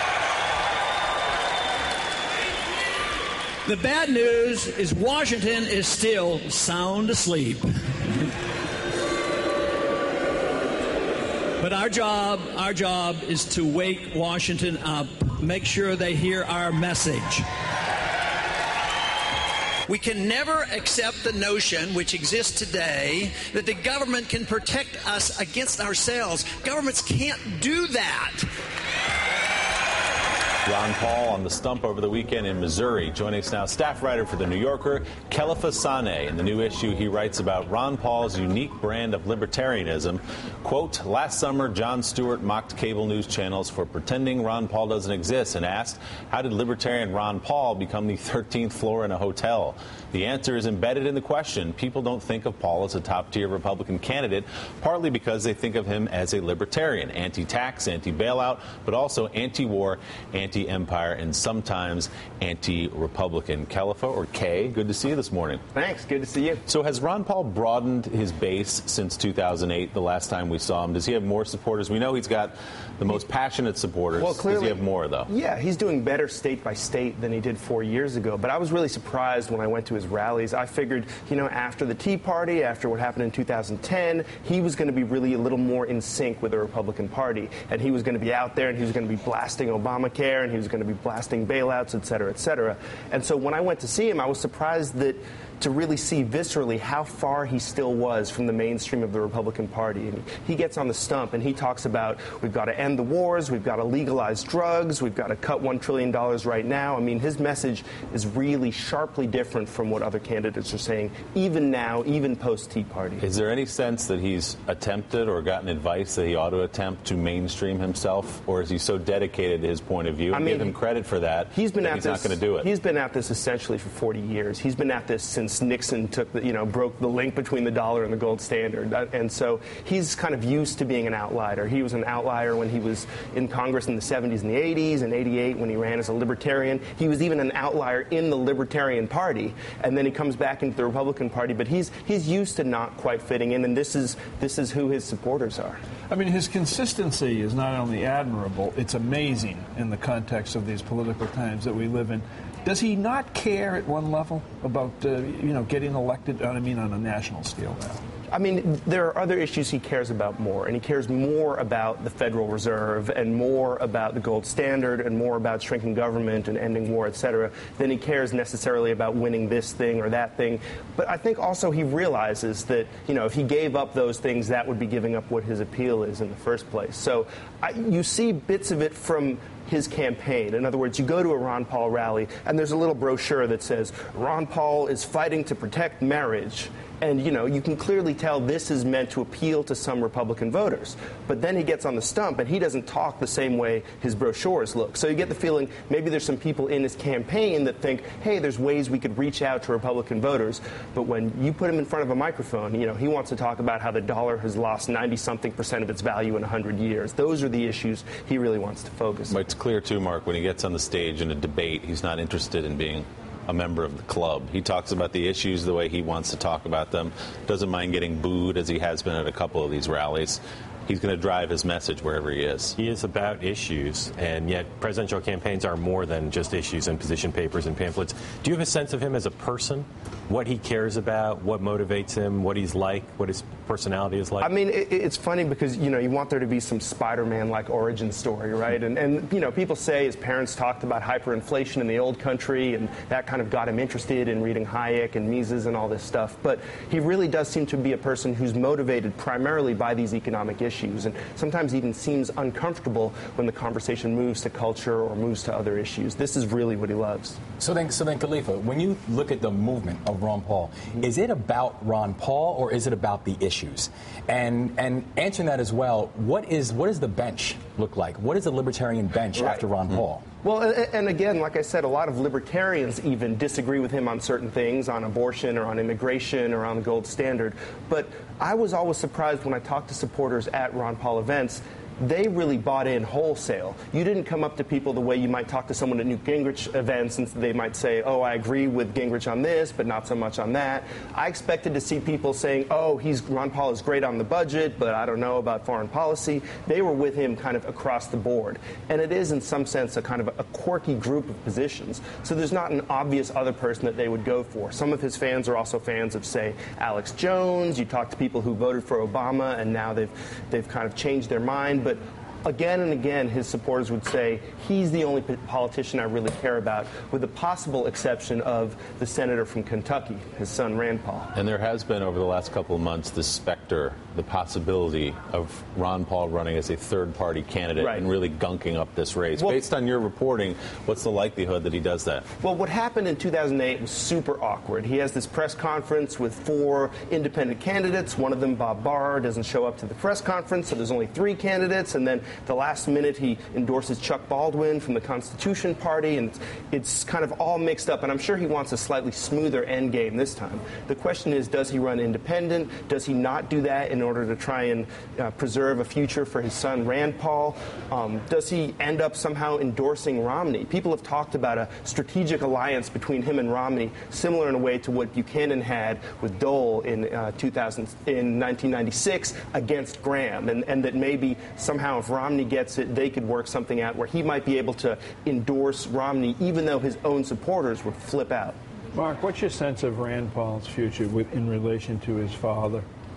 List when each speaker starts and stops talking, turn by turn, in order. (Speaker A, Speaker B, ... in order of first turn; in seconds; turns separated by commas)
Speaker A: 3.7-7.7, Speaker A: 11.6-17.5, Speaker A: 19.9-28.5, Speaker B: 30.7-65.6, Speaker C: 65.7-66.6, Speaker B: 66.7-75.3, Speaker C: 74.2-113.2, Speaker B: 113.2-122.7, Speaker C: 120.3-120.8, Speaker C: 121.5-145.8, Speaker D: 146.1-158.0, Speaker C: 158.3-209.4, Speaker B: 209.3-222.8, Speaker E: 222.8-234.5, Speaker C: 234.4-257.4, Speaker F: 257.6-270.2, Speaker C: 269.4-269.6, Speaker C: 270.4-321.3, Speaker B: 321.4-332.3, Speaker C: 327.8-328.1, Speaker C: 329.4-329.6, Speaker C: 332.4-378.6, Speaker D: 379.0-382.9